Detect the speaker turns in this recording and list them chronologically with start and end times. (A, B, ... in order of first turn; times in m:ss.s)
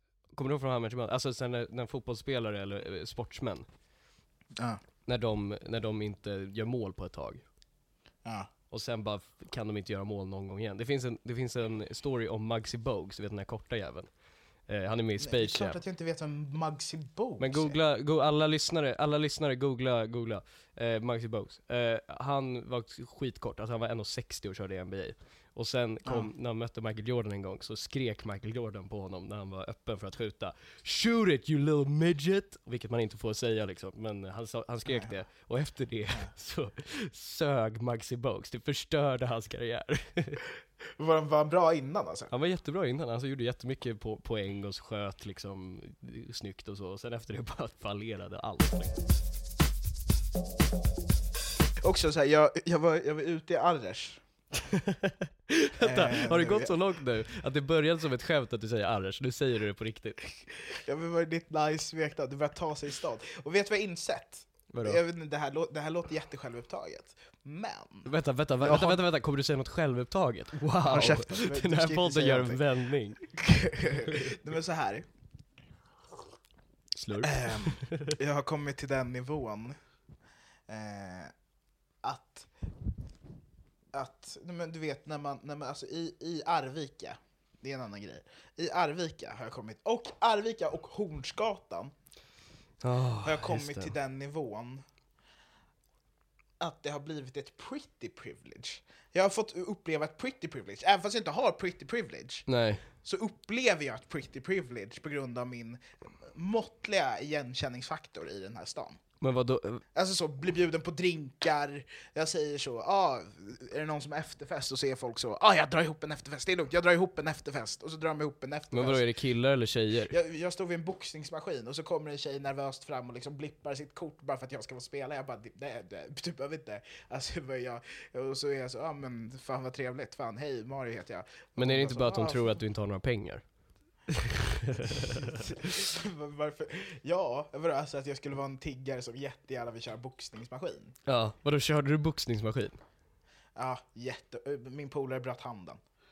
0:00.3-0:03.7 A
0:05.1-0:07.4 A
0:08.7-0:14.1 A
0:14.7-0:15.8 A
0:15.2-0:17.8 B
0:17.4-0:40.4 A
0:26.0-0:26.3 B
0:34.9-0:35.2 B
0:41.0-0:42.3 B
0:42.3-0:49.0 A
0:51.8-0:54.2 B
0:54.8-1:00.3 A
0:55.8-0:56.8 B
1:00.7-1:09.0 B
1:04.7-1:05.0 A
1:08.0-1:13.4 A
1:10.9-1:12.6 B
1:13.4-1:15.1 B
1:14.0-1:14.3 A
1:17.0-1:18.1 A
1:17.2-1:19.8 B
1:20.7-1:21.3 B
1:22.0-1:22.5 B
1:23.9-1:31.9 B
1:32.8-1:33.9 A
1:33.2-1:34.8 B
1:36.6-1:42.5 B
1:42.5-1:42.8 A
1:43.0-1:49.0 B
1:49.2-1:49.8 A
1:50.0-1:59.0 B
1:58.7-2:00.2 A
2:00.1-2:12.6 B
2:11.6-2:13.4 A
2:14.1-2:15.6 A
2:15.4-2:21.0 B
2:21.1-2:22.8 A
2:23.6-2:25.8 B